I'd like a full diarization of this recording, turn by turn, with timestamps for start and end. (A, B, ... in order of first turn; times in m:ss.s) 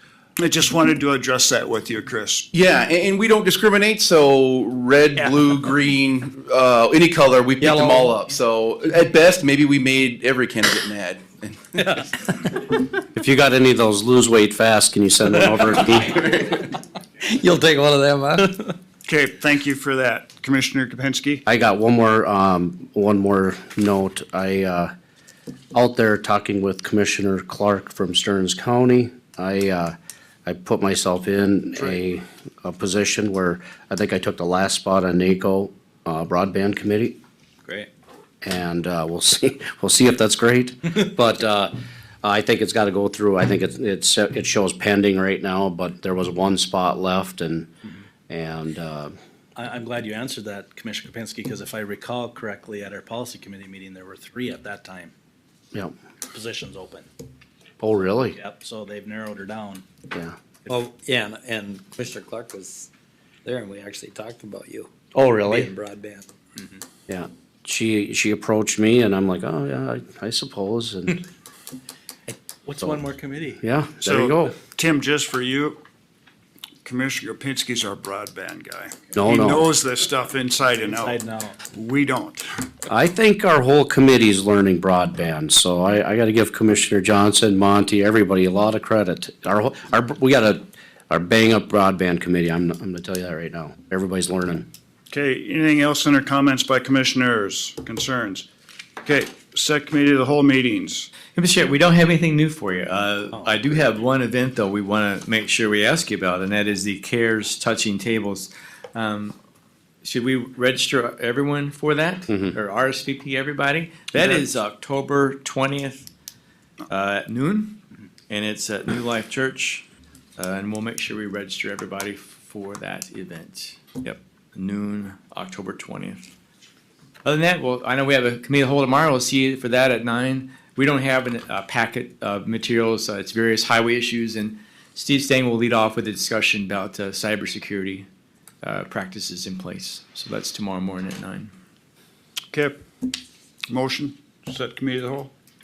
0:00.4-0:02.5 A
0:02.5-0:12.0 B
0:07.6-0:08.1 C
0:13.0-0:16.2 D
0:15.4-0:18.8 C
0:19.1-0:21.4 A
0:21.5-0:24.9 D
0:25.7-0:30.0 D
0:30.5-0:37.2 D
0:38.4-0:41.7 D
0:42.2-0:47.7 D
0:48.3-0:49.1 D
0:49.6-0:55.1 E
0:56.3-0:57.1 E
0:57.8-0:58.4 D
0:58.4-0:59.9 E
1:00.7-1:02.9 C
1:03.4-1:06.3 C
1:07.1-1:11.2 D
1:12.3-1:13.6 E
1:13.6-1:14.6 D
1:14.0-1:15.8 A
1:16.8-1:22.6 A
1:19.2-1:19.7 D
1:20.8-1:21.6 E
1:22.9-1:34.7 D
1:35.1-1:38.5 A
1:39.0-1:41.1 A
1:41.3-1:49.4 F
1:50.0-1:56.1 F
1:52.3-1:52.6 D
1:56.9-1:57.8 F
1:58.3-1:59.8 F
2:00.4-2:06.2 F
2:07.2-2:18.1 F
2:18.6-2:21.5 F
2:22.5-2:23.1 A
2:23.7-2:25.3 A